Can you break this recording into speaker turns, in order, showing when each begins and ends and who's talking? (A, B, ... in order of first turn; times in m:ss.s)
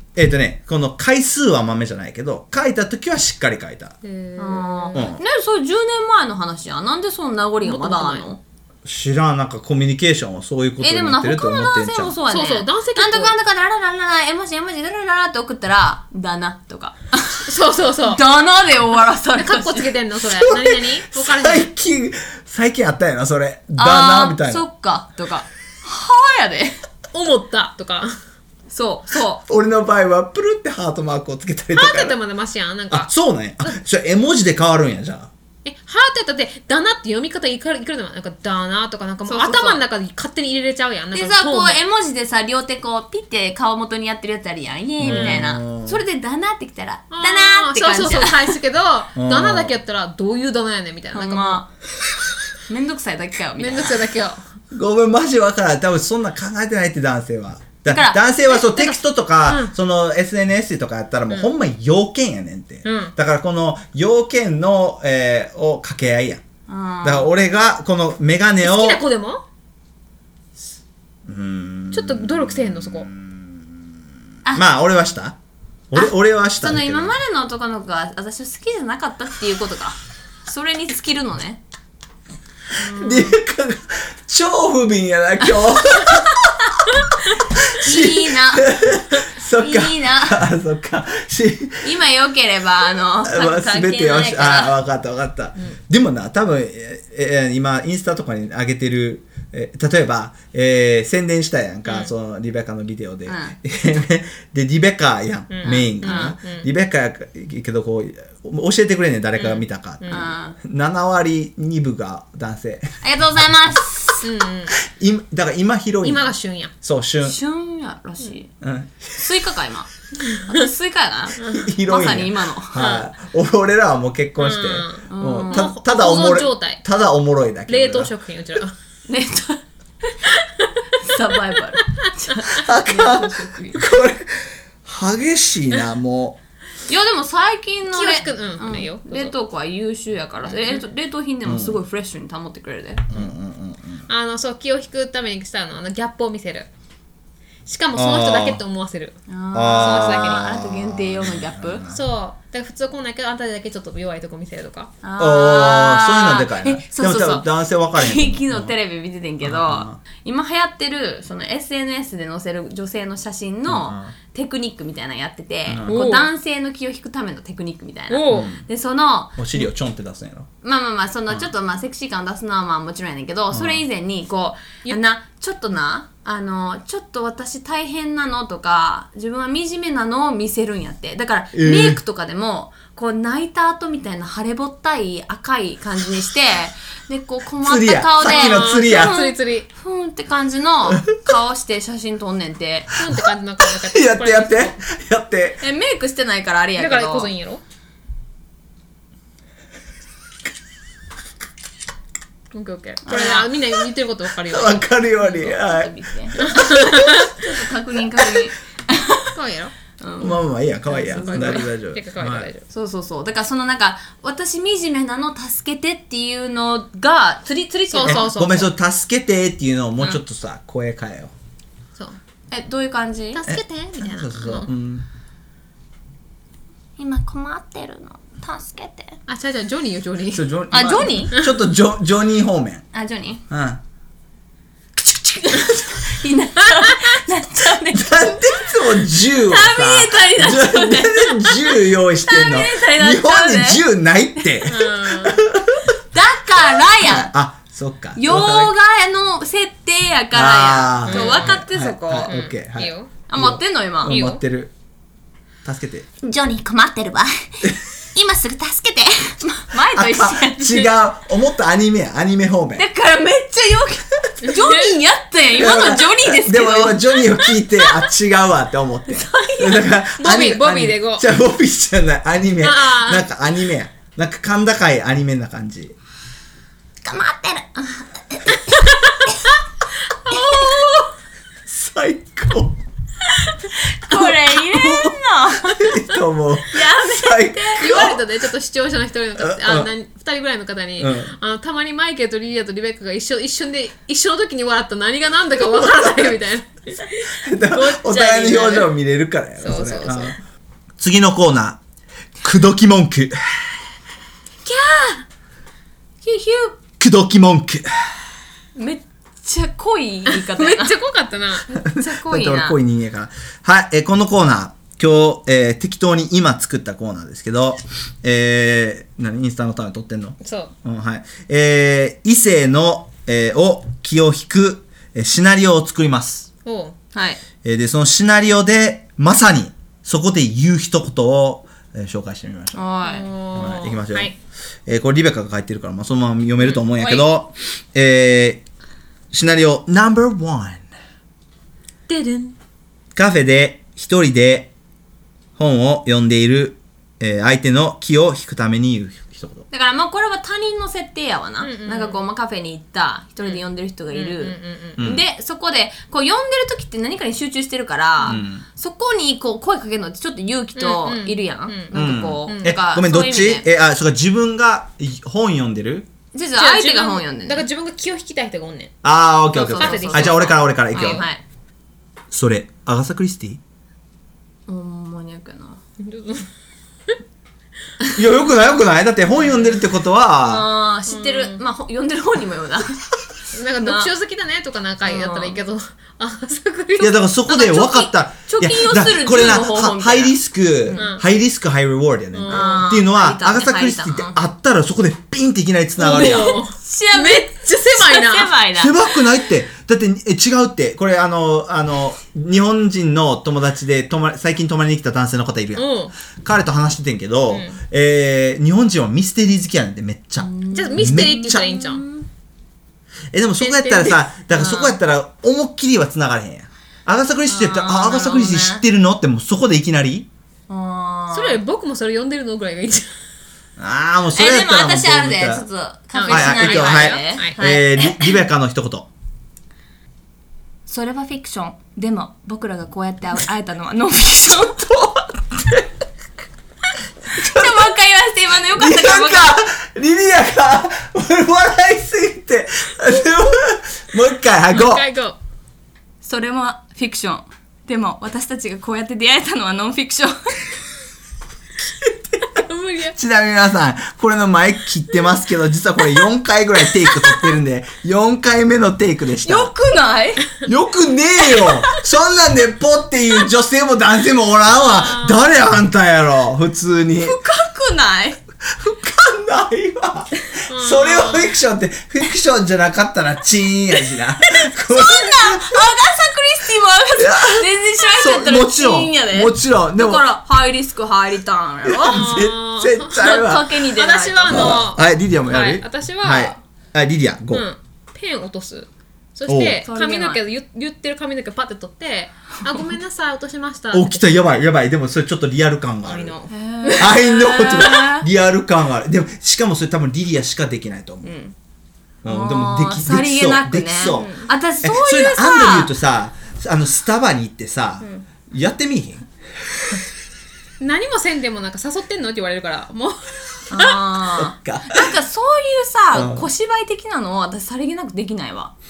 0:00.2-0:04.0 A
0:04.0-0:05.1 B
0:04.4-0:08.4 C
0:04.9-0:05.2 A
0:07.6-0:08.3 B
0:08.8-0:12.2 A
0:10.8-0:19.9 C
0:12.3-0:13.4 B
0:17.4-0:18.2 B
0:19.4-0:21.7 B
0:20.2-0:24.6 A
0:23.8-0:26.8 C
0:27.1-0:28.2 B
0:28.7-0:29.4 C
0:29.5-0:32.2 A
0:31.8-0:33.1 B
0:32.9-0:35.3 A
0:35.6-0:41.8 B
0:39.3-0:39.8 C
0:41.1-0:48.6 C
0:45.0-0:46.0 A
0:45.0-0:45.4 B
0:47.1-0:51.6 B
0:49.2-0:49.7 A
0:51.1-0:51.7 C
0:52.7-0:54.0 C
0:53.6-0:54.4 B
0:54.7-1:06.4 A
0:57.9-0:58.2 C
0:58.5-0:59.7 B
1:02.8-1:03.2 B
1:06.7-1:07.3 C
1:07.0-1:09.0 A
1:08.6-1:09.4 B
1:11.3-1:13.6 A
1:11.9-1:13.1 B
1:14.5-1:15.4 A
1:15.9-1:17.1 A
1:16.0-1:21.6 C
1:22.8-1:23.4 B
1:22.8-1:26.8 A
1:27.5-1:31.9 A
1:27.8-1:28.8 C
1:29.5-1:30.4 C
1:31.8-1:34.8 C
1:33.2-1:53.4 A
1:41.9-1:42.1 B
1:43.3-1:43.6 C
1:45.5-1:46.7 B
1:45.6-1:46.4 C
1:49.4-1:50.3 B
1:50.1-1:50.6 C
1:53.0-1:54.2 C
1:54.2-1:54.8 B
1:54.8-1:57.4 A
1:56.0-1:56.7 B
1:57.2-1:58.5 C
1:58.6-1:59.1 A
1:59.2-2:02.8 C
2:00.3-2:00.6 B
2:01.4-2:01.7 B
2:01.4-2:08.1 A
2:02.8-2:03.1 B
2:04.4-2:06.8 B
2:05.1-2:05.7 C
2:07.7-2:08.8 B
2:09.1-2:10.3 C
2:10.4-2:10.7 B
2:11.0-2:13.8 C
2:12.5-2:16.4 A
2:16.9-2:23.2 C
2:17.9-2:19.3 B
2:20.6-2:20.8 B
2:21.4-2:21.8 A
2:23.1-2:24.0 A
2:24.1-2:26.7 B
2:27.7-2:29.2 B
2:27.9-2:28.6 A
2:29.3-2:31.8 C
2:29.5-2:32.0 A
2:29.8-2:30.5 B
2:31.9-2:34.9 B
2:35.0-2:49.6 C
2:35.2-2:38.7 A
2:39.4-2:40.0 A
2:43.7-2:44.1 A
2:45.7-2:46.0 A
2:45.9-2:46.3 B
2:48.1-2:48.5 B
2:48.3-2:48.6 A
2:49.4-2:50.5 A
2:50.6-3:13.0 C
2:53.5-2:53.8 A
3:01.5-3:02.0 A
3:07.6-3:09.2 A
3:08.2-3:09.7 B
3:13.0-3:14.8 B
3:13.1-3:15.6 A
3:15.6-3:17.3 C
3:16.8-3:17.6 B
3:22.5-3:24.8 B
3:23.0-3:23.5 C
3:24.4-3:27.2 A
3:25.2-3:29.3 C
3:26.5-3:27.3 B
3:29.3-3:29.7 B
3:30.0-3:31.7 C
3:30.2-3:32.5 A
3:31.1-3:32.7 B
3:32.7-3:38.3 C
3:37.9-3:38.7 B
3:38.0-3:41.3 A
3:42.5-3:43.4 C
3:43.3-3:44.7 B
3:43.5-3:45.1 A
3:47.0-3:49.2 C
3:49.3-3:50.5 B
3:50.3-3:52.8 A
3:50.7-3:51.4 C
3:52.9-3:53.4 C
3:53.5-3:53.8 A
3:55.0-4:03.8 C
3:57.9-4:05.9 A
4:04.6-4:05.4 B
4:06.1-4:07.3 C
4:07.0-4:08.7 A
4:08.2-4:12.3 C
4:10.3-4:14.7 A
4:11.1-4:11.6 B
4:12.3-4:13.1 B
4:13.3-4:14.2 C
4:14.1-4:14.4 B
4:15.6-4:16.1 A
4:16.2-4:17.3 C
4:18.2-4:20.9 C
4:19.8-4:22.9 A
4:22.8-4:27.4 C
4:24.4-4:24.9 B
4:25.6-4:35.9 A
4:29.1-4:29.9 C
4:30.2-4:31.2 B
4:32.6-4:33.3 B
4:37.0-4:38.8 C
4:39.1-4:39.4 B
4:40.2-4:41.1 B
4:40.3-4:40.8 A
4:41.7-4:42.8 A
4:43.5-4:46.0 C
4:44.1-4:48.2 A
4:46.7-4:48.1 C
4:47.8-4:57.3 B
4:49.4-4:49.9 A
4:51.0-4:51.3 A
4:55.7-4:56.4 A
4:57.4-5:00.4 A
4:57.7-4:58.9 C
4:59.6-5:00.4 B
5:01.0-5:01.8 A
5:02.4-5:03.4 A
5:04.6-5:05.2 C
5:06.2-5:06.8 C
5:07.0-5:07.9 A
5:08.8-5:11.0 C
5:10.3-5:11.8 B
5:11.8-5:26.5 A
5:11.8-5:12.8 C
5:20.4-5:20.7 B
5:26.6-5:27.0 B
5:27.1-5:27.4 C
5:27.6-5:32.8 A
5:32.7-5:33.3 C
5:33.0-5:34.4 B
5:33.5-5:34.3 A
5:34.9-5:38.6 A
5:36.6-5:37.2 B
5:39.3-5:40.9 A
5:42.1-5:42.6 C
5:43.2-5:44.7 A
5:45.6-5:49.6 A
5:49.7-6:03.7 C
5:51.6-5:52.2 B
5:53.4-5:55.0 B
5:55.0-5:55.2 A
5:58.2-5:58.6 A
6:00.8-6:01.9 B
6:01.9-6:06.1 A
6:02.5-6:02.8 B
6:06.3-6:07.6 C
6:06.6-6:09.0 B
6:09.0-6:11.2 A
6:09.5-6:11.4 C
6:09.6-6:11.2 B
6:12.3-6:13.6 A
6:14.7-6:15.8 C
6:16.0-6:16.5 B
6:18.2-6:20.7 A
6:20.4-6:23.0 C
6:21.1-6:21.6 B
6:23.5-6:27.2 B
6:23.8-6:24.1 C
6:25.0-6:25.6 C
6:27.0-6:36.6 A
6:27.5-6:31.2 C
6:31.0-6:31.2 B
6:32.3-6:32.9 B
6:32.5-6:34.4 C
6:36.0-6:38.5 B
6:36.0-6:39.1 C
6:38.8-6:51.7 A
6:45.8-6:46.1 B
6:47.5-6:47.8 B
6:50.4-6:52.3 C
6:50.7-6:52.0 B
6:53.3-7:00.3 A
6:53.6-6:54.2 B
6:54.5-6:55.0 C
6:57.5-6:58.8 C
7:00.7-7:01.6 C
7:01.3-7:03.1 B
7:03.8-7:05.7 A
7:04.3-7:08.4 C
7:06.1-7:07.6 B
7:06.3-7:09.1 A
7:10.9-7:14.9 C
7:14.5-7:15.9 A
7:17.3-7:19.6 C
7:17.4-7:17.9 A
7:18.7-7:25.0 A
7:24.7-7:25.4 B
7:26.2-7:30.5 C
7:32.0-7:32.4 A
7:32.5-7:33.2 B
7:33.2-7:39.7 A
7:39.4-7:40.5 C
7:40.6-7:47.4 A
7:41.4-7:42.0 C
7:44.8-7:45.4 B
7:47.2-7:48.4 C
7:48.6-7:55.8 A
7:50.7-7:51.6 B
7:54.6-8:02.4 C
7:57.2-8:00.2 A
8:01.8-8:03.7 A
8:02.0-8:06.6 B
8:03.2-8:04.8 C
8:04.5-8:07.6 A
8:07.5-8:14.3 B
8:09.5-8:09.8 A
8:09.8-8:10.4 C
8:13.9-8:16.4 A
8:16.0-8:16.9 B
8:16.5-8:18.3 C
8:17.0-8:21.3 A
8:21.2-8:21.5 C
8:22.2-8:29.2 A
8:22.3-8:25.9 C
8:24.2-8:24.4 B
8:30.8-8:34.1 B
8:33.7-8:38.7 C
8:34.4-8:35.2 A
8:36.1-8:36.5 A